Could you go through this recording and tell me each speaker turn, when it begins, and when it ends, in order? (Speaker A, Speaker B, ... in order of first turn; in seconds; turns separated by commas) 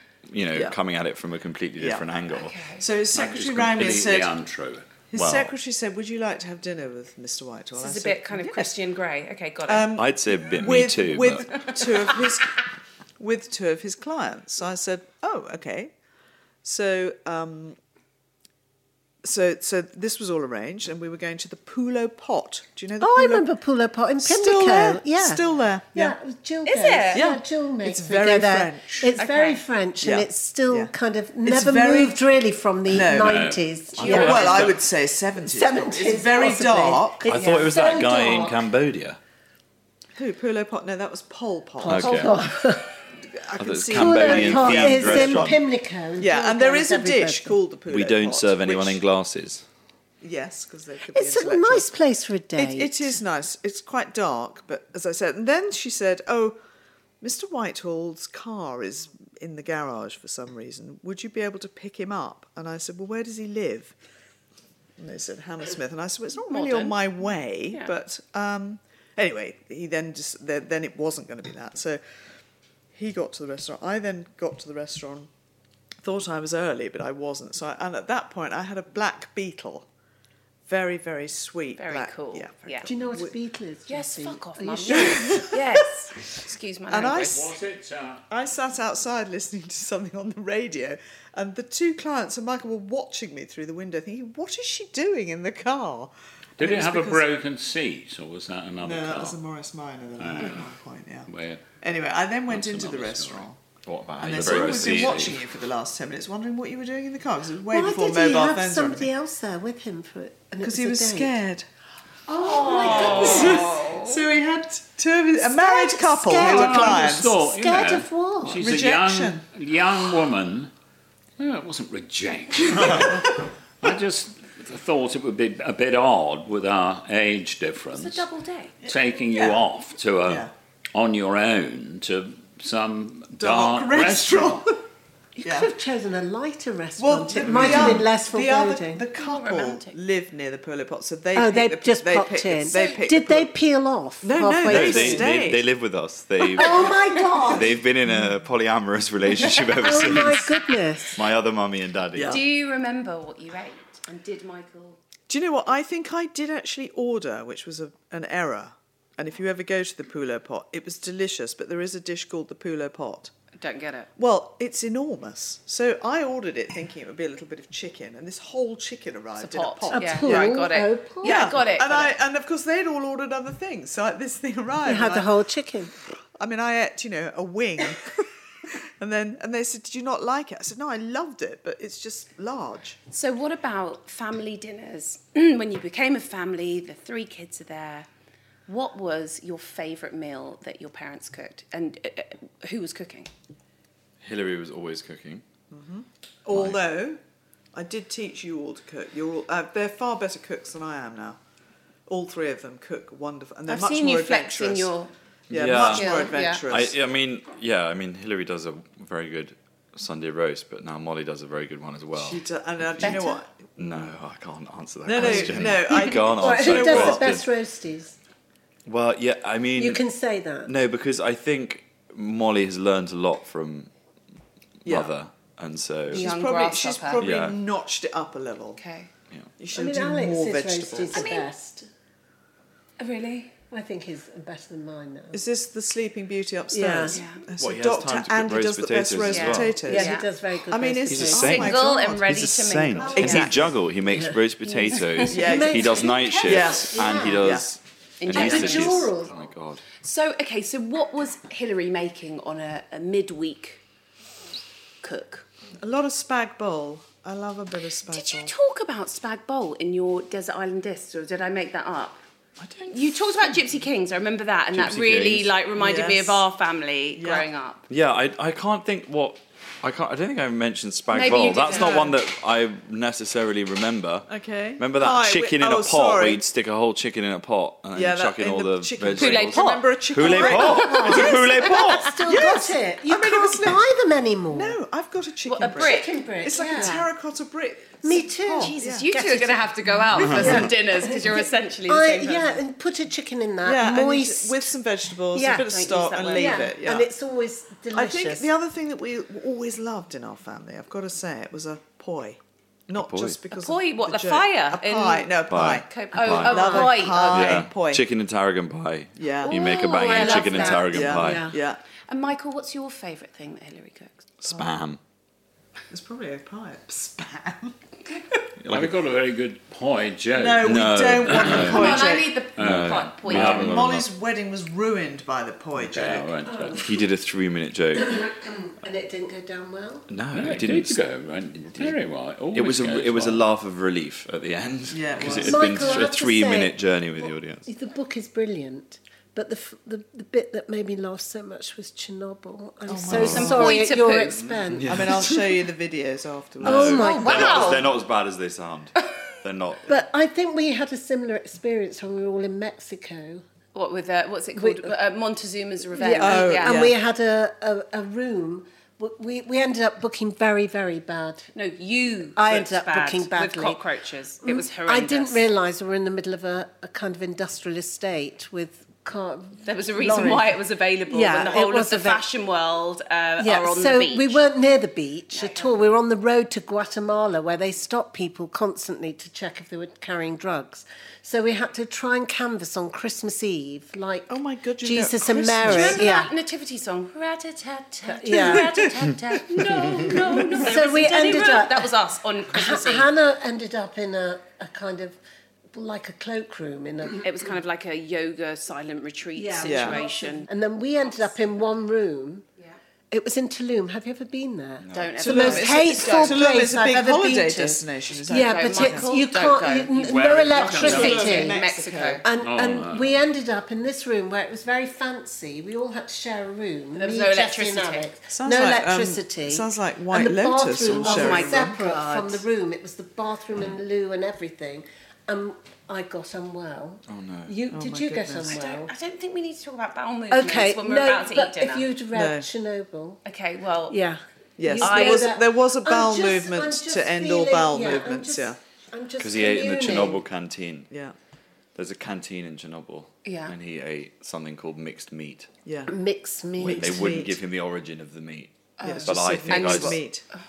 Speaker A: 0.3-2.6, Speaker B: 1.8-2.0, Speaker C: 2.3-2.9, Speaker B: 2.8-4.4, Speaker D: 3.1-4.9, Speaker B: 5.1-8.8, Speaker A: 5.2-5.5, Speaker C: 7.8-9.9, Speaker B: 9.7-12.6, Speaker A: 10.0-11.7, Speaker C: 11.6-12.1, Speaker B: 13.2-15.9, Speaker B: 16.6-17.8, Speaker B: 19.2-23.5, Speaker E: 23.0-34.8, Speaker B: 24.2-26.2, Speaker C: 26.7-27.3, Speaker B: 27.1-29.1, Speaker C: 29.2-29.6, Speaker B: 30.0-30.9, Speaker B: 31.4-32.2, Speaker B: 32.9-37.3, Speaker D: 33.1-34.7, Speaker A: 34.0-34.7, Speaker E: 35.4-38.7, Speaker A: 37.2-39.2, Speaker C: 37.4-37.6, Speaker B: 40.1-42.5, Speaker E: 41.8-42.9, Speaker A: 41.9-42.4, Speaker B: 43.3-45.6, Speaker A: 43.6-45.6, Speaker E: 43.9-47.6, Speaker B: 46.2-49.0, Speaker A: 47.9-49.6, Speaker B: 50.2-51.9, Speaker E: 51.1-53.2, Speaker B: 52.6-56.6, Speaker B: 57.2-64.0, Speaker B: 65.0-72.0, Speaker C: 66.4-67.9, Speaker B: 72.9-75.3, Speaker B: 76.0-79.9, Speaker B: 80.7-83.3, Speaker C: 81.8-82.9, Speaker E: 82.8-85.5, Speaker C: 83.9-87.5, Speaker B: 85.0-85.5, Speaker B: 86.9-87.5, Speaker D: 87.3-88.2, Speaker B: 88.3-97.2, Speaker D: 96.6-99.4, Speaker B: 98.8-101.3, Speaker D: 100.2-100.8, Speaker D: 101.3-101.7, Speaker B: 101.8-103.6, Speaker D: 102.5-103.5, Speaker A: 103.9-105.3, Speaker B: 104.2-109.1, Speaker D: 104.2-105.4, Speaker E: 107.7-111.3, Speaker B: 110.6-111.7, Speaker E: 112.3-113.7, Speaker C: 112.3-114.2, Speaker B: 112.4-117.4, Speaker E: 115.4-118.6, Speaker D: 116.3-120.7, Speaker B: 118.5-119.4, Speaker D: 121.4-128.2, Speaker C: 128.0-128.7, Speaker B: 128.8-129.7, Speaker D: 128.9-134.7, Speaker B: 130.2-130.5, Speaker B: 133.4-134.8, Speaker E: 135.4-139.1, Speaker B: 135.4-135.7, Speaker B: 137.0-143.5, Speaker A: 137.5-138.1, Speaker C: 139.2-140.0, Speaker E: 141.3-145.4, Speaker B: 144.2-145.7, Speaker A: 144.6-150.6, Speaker E: 146.4-147.8, Speaker E: 149.4-151.2, Speaker A: 151.1-152.4, Speaker B: 152.1-152.4, Speaker C: 152.3-155.0, Speaker B: 155.3-163.3, Speaker C: 163.6-164.1, Speaker B: 164.2-170.7, Speaker C: 169.4-172.2, Speaker E: 169.9-171.5, Speaker B: 171.2-175.3, Speaker E: 174.8-175.9, Speaker B: 176.4-183.0, Speaker C: 183.1-188.1, Speaker C: 188.7-193.3, Speaker A: 194.2-195.4, Speaker B: 195.7-197.2, Speaker A: 196.5-196.8, Speaker B: 197.7-201.4, Speaker B: 202.1-204.9, Speaker C: 203.7-205.1, Speaker B: 205.5-207.0, Speaker A: 205.5-212.4, Speaker C: 205.8-206.6, Speaker B: 212.2-213.7, Speaker C: 213.0-213.4, Speaker A: 213.8-217.5, Speaker B: 215.1-217.3, Speaker E: 215.2-218.2, Speaker A: 218.9-220.0, Speaker E: 219.7-220.7, Speaker A: 220.7-223.9, Speaker A: 224.8-226.2, Speaker B: 224.8-225.1, Speaker C: 226.1-227.3, Speaker B: 226.1-228.8, Speaker A: 227.2-227.6, Speaker C: 228.8-229.1, Speaker B: 229.6-231.3, Speaker E: 229.7-231.9, Speaker C: 231.1-231.5, Speaker C: 233.0-233.5, Speaker E: 233.7-235.5, Speaker B: 235.3-240.2, Speaker E: 236.7-237.2, Speaker C: 237.1-237.4, Speaker A: 237.6-239.8, Speaker C: 239.3-240.3, Speaker E: 239.8-241.6, Speaker B: 240.7-242.3, Speaker A: 241.1-249.8, Speaker C: 241.4-243.5, Speaker B: 243.0-243.7, Speaker E: 243.0-247.6, Speaker C: 245.0-245.2, Speaker B: 245.3-247.7, Speaker C: 248.2-249.1, Speaker E: 248.3-249.3, Speaker C: 250.0-253.8, Speaker C: 255.0-255.5, Speaker B: 255.8-258.5, Speaker C: 258.1-262.2, Speaker A: 262.6-263.1, Speaker C: 262.9-267.8, Speaker A: 264.7-265.6, Speaker B: 265.7-266.4, Speaker B: 267.1-267.5, Speaker A: 267.9-282.2, Speaker C: 271.1-272.1, Speaker B: 271.3-272.2, Speaker B: 274.3-276.4, Speaker B: 277.9-281.5, Speaker C: 279.2-281.6, Speaker E: 280.6-284.8, Speaker B: 282.2-283.8, Speaker B: 284.5-289.1, Speaker C: 285.5-287.0, Speaker E: 285.7-287.1, Speaker E: 288.0-294.8, Speaker C: 288.6-292.6, Speaker B: 290.4-290.6, Speaker A: 290.4-290.6, Speaker B: 293.6-297.1, Speaker E: 295.3-298.5, Speaker C: 295.5-296.7, Speaker B: 297.9-308.1, Speaker A: 302.9-303.4, Speaker C: 303.5-307.7, Speaker A: 305.5-311.5, Speaker E: 306.2-307.2, Speaker B: 309.2-309.6, Speaker C: 309.5-311.2, Speaker E: 309.6-311.6, Speaker B: 310.3-311.8, Speaker C: 312.1-314.2, Speaker A: 314.4-315.0, Speaker B: 315.9-317.8, Speaker A: 318.6-318.9, Speaker D: 318.7-321.8, Speaker B: 320.4-322.5, Speaker A: 320.6-321.8, Speaker C: 321.6-323.8, Speaker D: 322.6-323.8, Speaker A: 322.6-324.1, Speaker B: 323.4-326.3, Speaker D: 325.8-326.9, Speaker E: 326.5-326.8, Speaker A: 326.8-328.2, Speaker E: 327.9-330.1, Speaker A: 330.1-331.0, Speaker D: 330.4-333.5, Speaker A: 332.5-337.6, Speaker B: 334.9-336.1, Speaker E: 335.4-345.3, Speaker B: 342.9-343.7, Speaker A: 343.1-343.6, Speaker C: 343.1-344.4, Speaker A: 344.7-345.4, Speaker B: 344.8-347.3, Speaker A: 346.6-350.0, Speaker E: 346.6-347.9, Speaker C: 347.0-347.9, Speaker E: 349.9-353.4, Speaker C: 353.7-356.9, Speaker E: 354.5-354.9, Speaker E: 355.9-361.5, Speaker B: 356.1-357.0, Speaker C: 361.6-365.4, Speaker E: 362.4-363.8, Speaker E: 364.4-372.2, Speaker C: 369.6-374.4, Speaker E: 373.4-386.3, Speaker C: 375.3-375.8, Speaker B: 384.3-386.1, Speaker C: 385.6-393.1, Speaker E: 388.1-388.9, Speaker E: 389.6-391.9, Speaker E: 392.5-395.2, Speaker E: 395.7-397.3, Speaker C: 397.2-400.5, Speaker E: 399.4-402.5, Speaker B: 399.7-400.0, Speaker E: 403.1-411.6, Speaker A: 404.8-405.1, Speaker C: 404.9-406.4, Speaker B: 405.2-409.1, Speaker C: 408.3-412.2, Speaker D: 410.1-411.4, Speaker B: 410.8-412.2, Speaker E: 412.2-428.9, Speaker D: 412.4-413.2, Speaker C: 416.9-418.1, Speaker B: 418.3-421.9, Speaker C: 420.9-422.4, Speaker A: 427.1-427.6, Speaker B: 427.7-428.6, Speaker C: 428.4-431.9, Speaker E: 430.3-433.2, Speaker B: 432.1-432.5, Speaker C: 433.2-434.0, Speaker E: 433.9-440.2, Speaker B: 434.6-438.6, Speaker C: 434.8-435.3, Speaker A: 439.2-440.9, Speaker A: 441.8-445.5, Speaker C: 443.2-443.5, Speaker B: 445.6-445.9, Speaker E: 445.9-447.1, Speaker B: 446.6-447.4, Speaker A: 446.6-450.0, Speaker C: 448.8-450.0, Speaker B: 448.8-450.2